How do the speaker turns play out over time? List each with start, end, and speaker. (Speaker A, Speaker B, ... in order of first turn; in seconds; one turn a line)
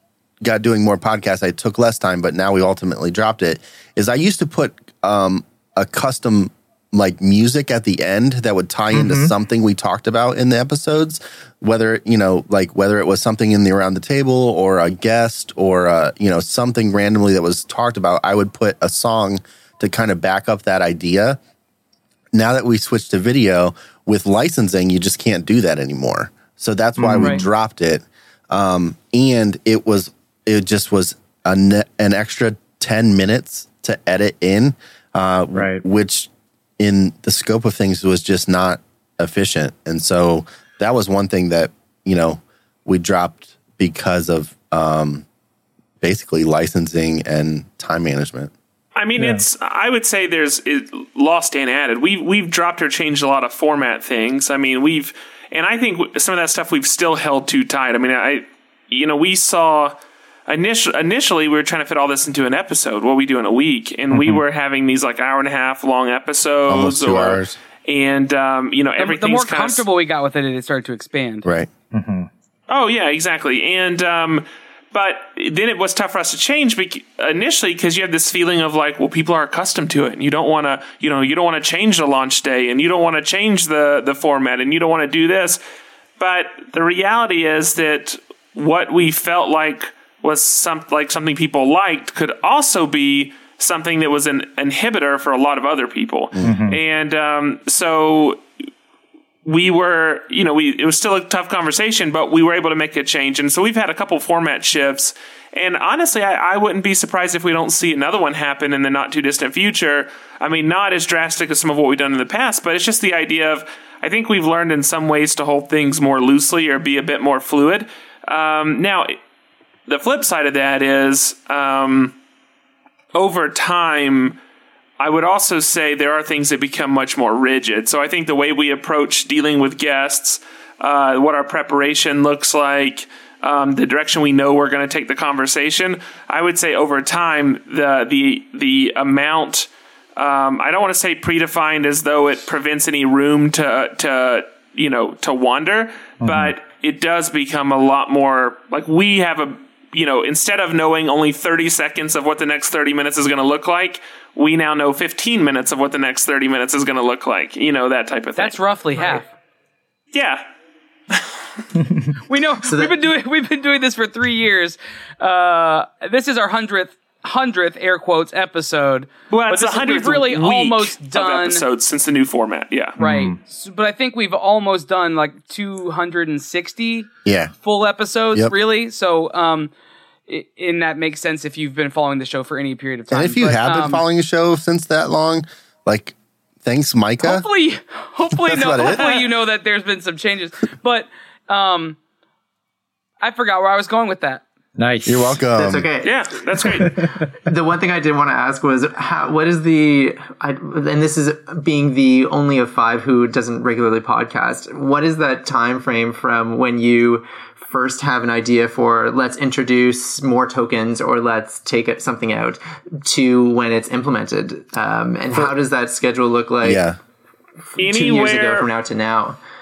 Speaker A: 0.4-21.4
Speaker B: 8.9-9.3
Speaker A: 22.3-45.3
Speaker B: 27.0-27.4
Speaker C: 27.2-27.4
Speaker B: 35.5-35.8
Speaker A: 46.0-48.5
Speaker D: 49.0-59.9
Speaker D: 60.5-69.8
Speaker A: 66.7-67.6
Speaker C: 69.0-71.5
Speaker A: 71.4-71.7
Speaker B: 71.9-72.3
Speaker D: 72.7-85.6
Speaker D: 86.2-98.4
Speaker B: 96.4-96.8
Speaker D: 99.5-119.2
Speaker D: 119.9-122.2
Speaker D: 123.1-124.4
Speaker D: 125.0-159.2
Speaker B: 146.2-146.5
Speaker C: 158.4-159.3
Speaker D: 160.1-160.4
Speaker B: 161.8-162.0
Speaker C: 162.3-171.7
Speaker E: 162.7-162.9
Speaker D: 169.3-173.0
Speaker B: 173.0-173.4
Speaker C: 173.0-177.1
Speaker A: 177.2-177.5
Speaker C: 177.6-179.7
Speaker C: 180.3-184.0
Speaker A: 183.1-187.5
Speaker C: 187.2-192.0
Speaker A: 188.4-189.2
Speaker C: 193.2-194.4
Speaker B: 194.8-195.4
Speaker A: 195.1-195.9
Speaker E: 195.5-196.8
Speaker D: 196.0-197.0
Speaker B: 196.8-197.2
Speaker E: 197.4-216.8
Speaker A: 216.6-217.0
Speaker E: 217.8-219.4
Speaker D: 217.8-218.7